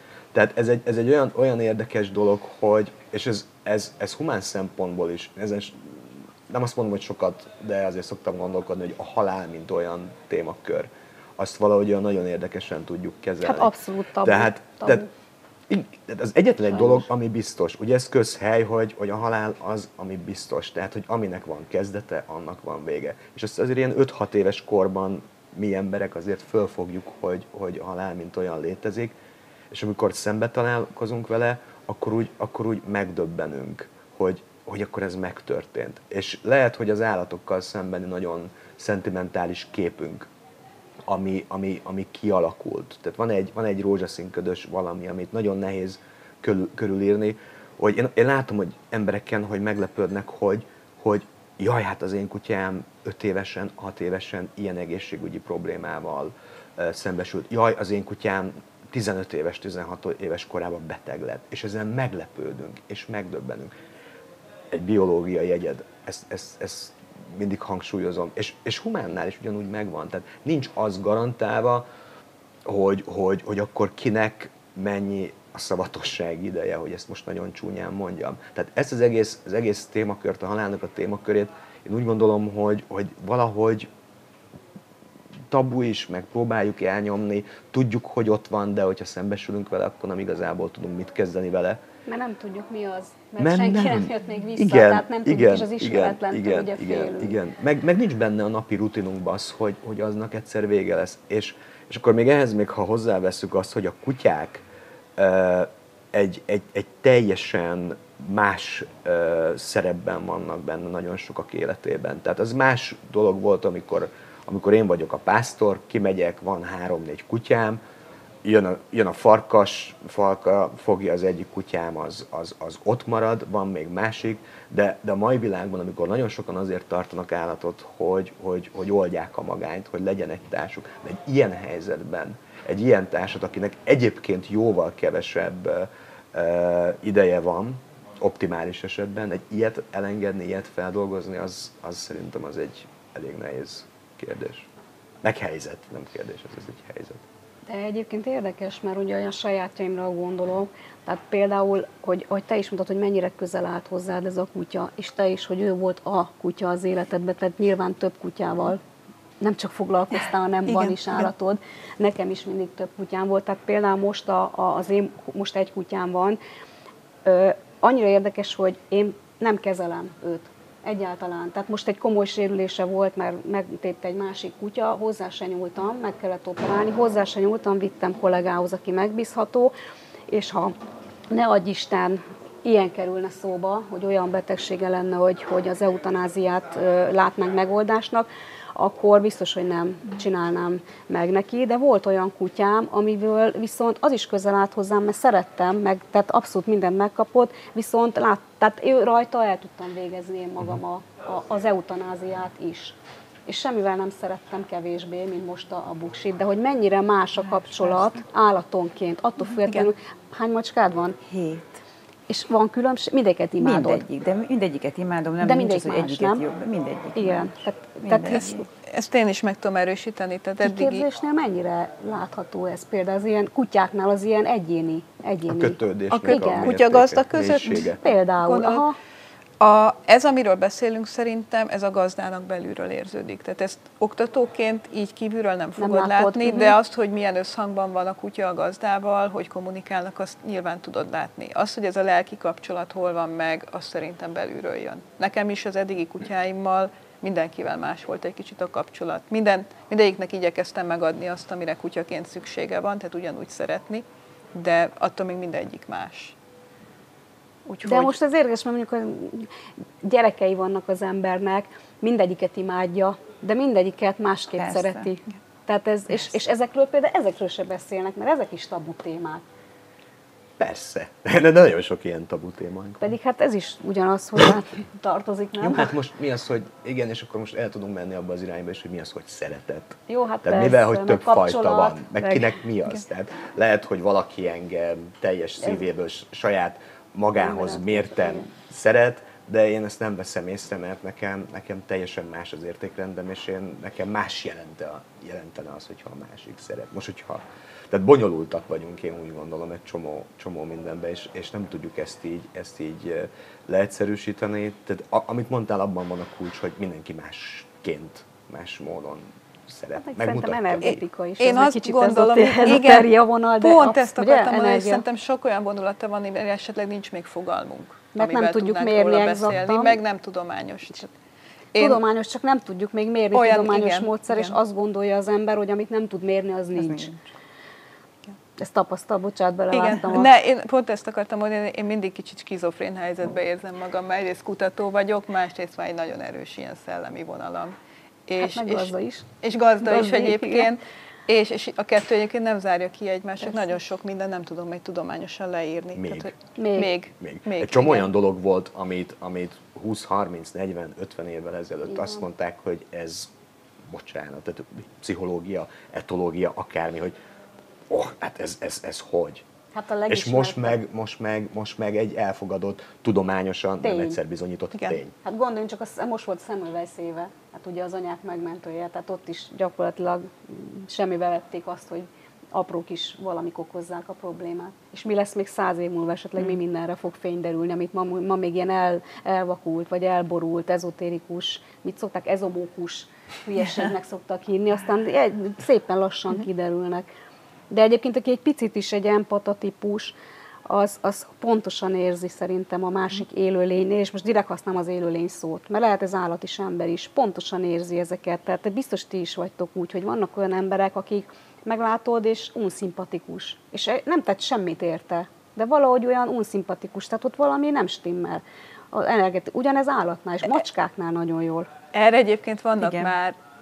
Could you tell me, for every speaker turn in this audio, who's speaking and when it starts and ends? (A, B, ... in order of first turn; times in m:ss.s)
0:00.3-0:15.0 A
0:13.4-0:15.1 B
0:15.7-0:29.1 A
0:29.7-0:40.2 A
0:41.0-1:03.7 A
1:04.7-1:11.8 A
1:12.6-1:23.9 A
1:25.5-1:31.8 A
1:32.1-1:37.3 B
1:33.4-1:44.6 A
1:45.2-1:57.8 A
1:58.4-2:24.7 A
2:25.2-2:27.2 A
2:27.7-2:38.8 B
2:39.4-2:46.4 B
2:40.7-2:40.9 C
2:47.2-2:59.7 B
3:00.3-3:00.7 B
3:01.3-3:31.2 B
3:27.4-3:28.1 D
3:31.2-3:31.8 D
3:32.3-3:34.0 B
3:33.6-3:37.5 D
3:35.4-3:36.4 B
3:37.2-3:38.6 B
3:38.0-3:38.7 D
3:38.8-3:41.0 C
3:40.6-3:46.7 B
3:45.5-3:48.0 A
3:46.1-3:48.8 C
3:47.8-3:49.0 B
3:49.6-4:16.3 C
3:55.8-3:56.8 B
4:17.7-4:18.0 D
4:17.8-4:19.5 B
4:20.0-4:29.4 B
4:24.6-4:25.1 D
4:30.6-4:33.1 A
4:33.0-4:35.9 B
4:35.6-5:11.0 A
4:40.1-4:42.5 B
4:47.4-4:48.4 B
5:10.0-5:15.0 B
5:10.8-5:21.1 C
5:18.1-5:20.0 B
5:21.7-5:22.0 C
5:21.7-5:27.1 B
5:23.3-5:24.6 C
5:26.8-5:27.2 D
5:28.6-5:30.3 B
5:29.7-5:37.8 C
5:38.3-5:48.1 C
5:38.4-5:39.3 B
5:39.8-5:40.7 B
5:45.9-5:46.3 A
5:46.6-5:47.0 B
5:47.2-5:53.3 A
5:53.9-5:57.2 A
5:57.9-5:59.4 A
5:59.7-6:00.8 B
6:00.1-6:05.1 A
6:03.8-6:04.2 B
6:05.2-6:27.0 B
6:27.7-6:51.7 B
6:51.9-6:53.4 C
6:52.8-6:53.1 D